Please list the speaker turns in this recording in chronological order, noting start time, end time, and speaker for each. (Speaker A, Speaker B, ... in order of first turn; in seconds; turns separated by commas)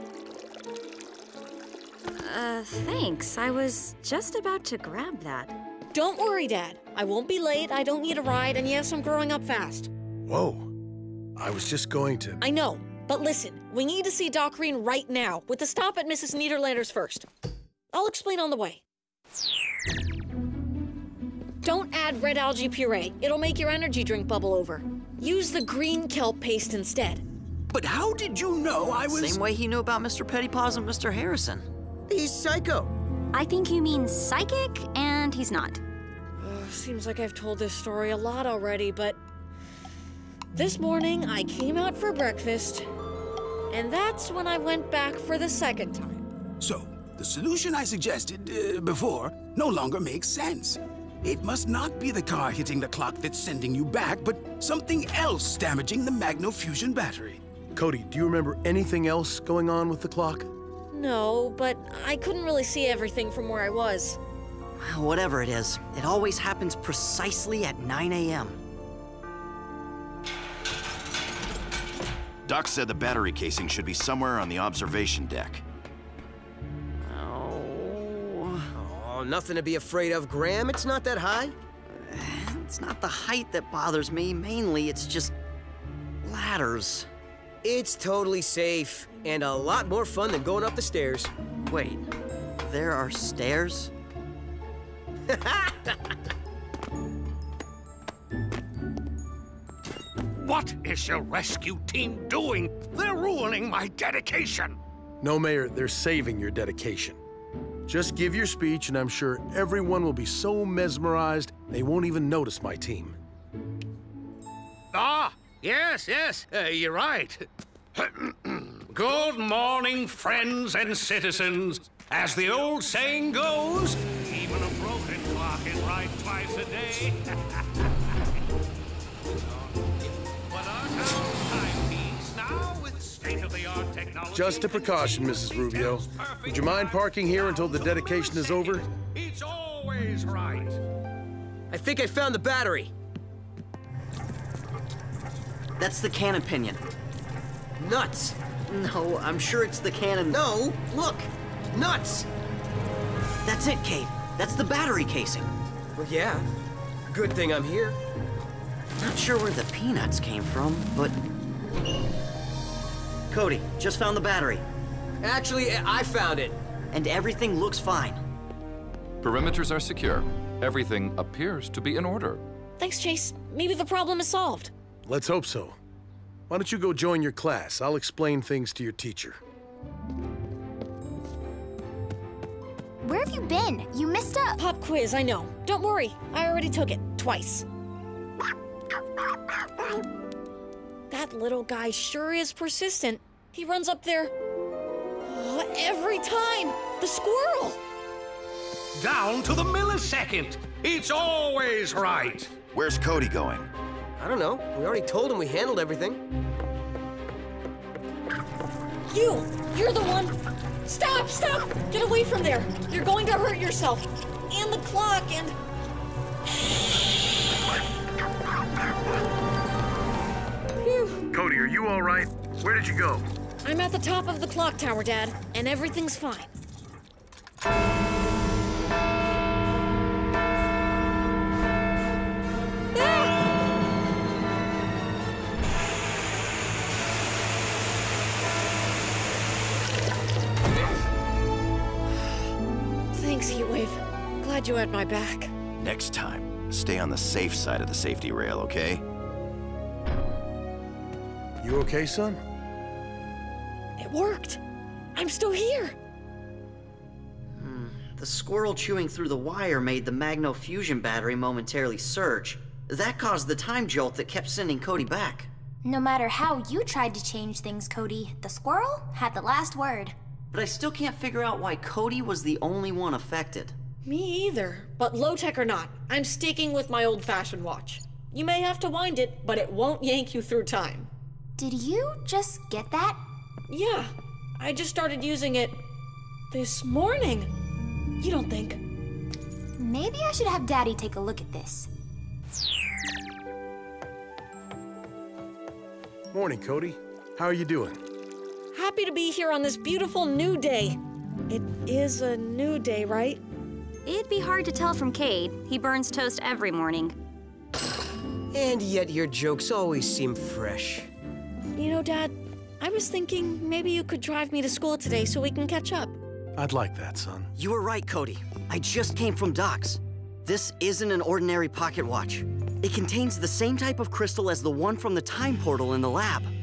Speaker A: 2.2-5.5, Speaker B: 5.9-9.9, Speaker C: 10.3-10.7, Speaker C: 11.3-12.4, Speaker B: 12.4-17.3, Speaker B: 17.9-18.8, Speaker B: 21.6-27.2, Speaker D: 27.7-29.4, Speaker E: 29.1-31.7, Speaker F: 32.1-32.9, Speaker A: 33.3-35.8, Speaker B: 36.4-39.2, Speaker B: 40.5-42.9, Speaker B: 43.7-46.2, Speaker D: 46.6-57.4, Speaker C: 57.7-60.5, Speaker B: 60.9-64.2, Speaker E: 64.8-68.6, Speaker G: 72.5-75.6, Speaker E: 77.0-78.7, Speaker F: 78.7-81.5, Speaker E: 81.9-85.3, Speaker E: 86.2-87.1, Speaker F: 87.6-91.3, Speaker E: 91.6-92.1, Speaker E: 92.6-93.9, Speaker F: 95.3-95.9, Speaker H: 100.3-104.8, Speaker C: 105.2-107.2, Speaker C: 107.9-113.2, Speaker H: 114.9-127.6, Speaker H: 130.5-140.8, Speaker C: 134.3-138.8, Speaker F: 141.7-142.9, Speaker E: 145.8-146.8, Speaker F: 147.8-148.3, Speaker E: 148.7-150.5, Speaker F: 150.3-152.3, Speaker E: 153.4-155.5, Speaker F: 156.0-156.5, Speaker F: 157.1-158.0, Speaker E: 159.0-161.2, Speaker E: 163.3-164.6, Speaker F: 165.2-166.6, Speaker E: 166.9-168.2, Speaker I: 169.2-172.4, Speaker B: 172.8-174.7, Speaker C: 175.0-175.8, Speaker C: 176.5-179.4, Speaker J: 183.0-184.6, Speaker B: 184.6-187.7, Speaker B: 191.1-194.3, Speaker B: 195.2-197.8, Speaker H: 199.0-202.5, Speaker G: 202.7-203.7, Speaker F: 204.2-206.2, Speaker B: 209.1-215.6, Speaker B: 220.8-221.2, Speaker C: 221.3-223.2, Speaker B: 223.6-226.5, Speaker B: 243.1-245.5, Speaker G: 245.8-249.0, Speaker C: 251.6-252.4, Speaker B: 254.0-254.6, Speaker B: 255.2-255.9, Speaker E: 257.6-265.5, Speaker J: 265.8-270.1, Speaker E: 270.5-273.7, Speaker B: 274.0-281.1, Speaker J: 281.6-283.2, Speaker B: 283.7-285.8, Speaker B: 286.5-287.5, Speaker B: 288.2-288.8, Speaker J: 289.8-291.9, Speaker C: 296.3-298.0, Speaker B: 298.7-303.4, Speaker A: 304.0-307.1, Speaker F: 308.5-311.1, Speaker B: 311.7-316.2, Speaker C: 316.6-317.5, Speaker E: 317.6-326.5